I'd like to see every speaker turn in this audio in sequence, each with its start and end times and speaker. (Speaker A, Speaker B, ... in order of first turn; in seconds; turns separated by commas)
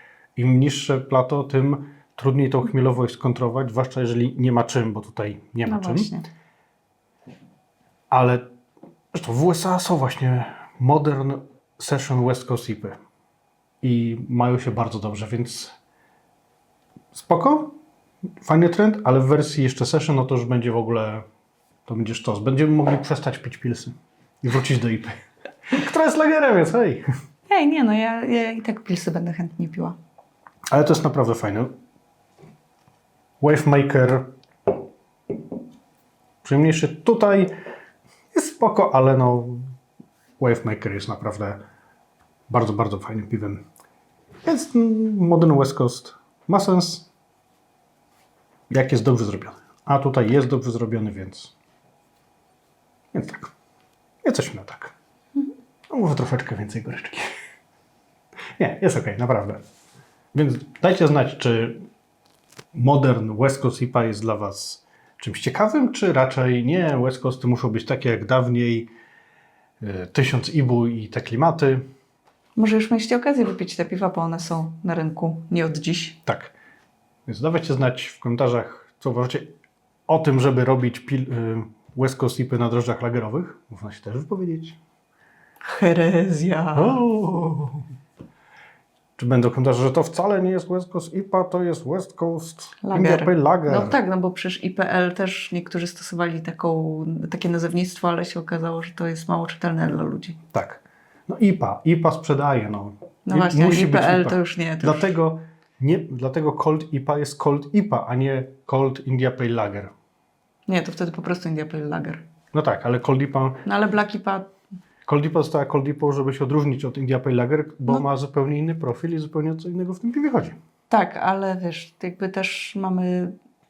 Speaker A: 0.4-6.1, Speaker B: 5.7-6.3, Speaker A: 8.1-8.5, Speaker A: 9.1-13.0, Speaker A: 13.8-15.7, Speaker A: 17.1-17.8, Speaker A: 18.4-21.3, Speaker A: 21.9-25.1, Speaker A: 25.7-27.1, Speaker B: 27.5-30.0, Speaker A: 30.7-31.7, Speaker A: 33.4-34.3, Speaker A: 36.4-37.5, Speaker A: 38.3-39.7, Speaker A: 40.4-41.6, Speaker A: 42.5-43.6, Speaker A: 44.5-47.1, Speaker A: 48.7-51.5, Speaker A: 53.1-53.5, Speaker A: 54.2-54.9, Speaker A: 55.9-57.3, Speaker A: 58.6-59.6, Speaker A: 60.3-61.8, Speaker A: 62.7-68.9, Speaker A: 69.8-71.9, Speaker B: 72.6-76.2, Speaker A: 76.3-76.5, Speaker A: 77.3-79.5, Speaker A: 80.1-84.8, Speaker B: 85.6-87.0, Speaker A: 86.8-87.8, Speaker A: 89.2-94.0, Speaker B: 92.8-100.4, Speaker A: 100.5-109.9, Speaker B: 103.3-105.1, Speaker B: 110.7-112.2, Speaker A: 112.5-113.7, Speaker B: 113.7-114.5, Speaker A: 115.1-120.6, Speaker B: 120.9-123.3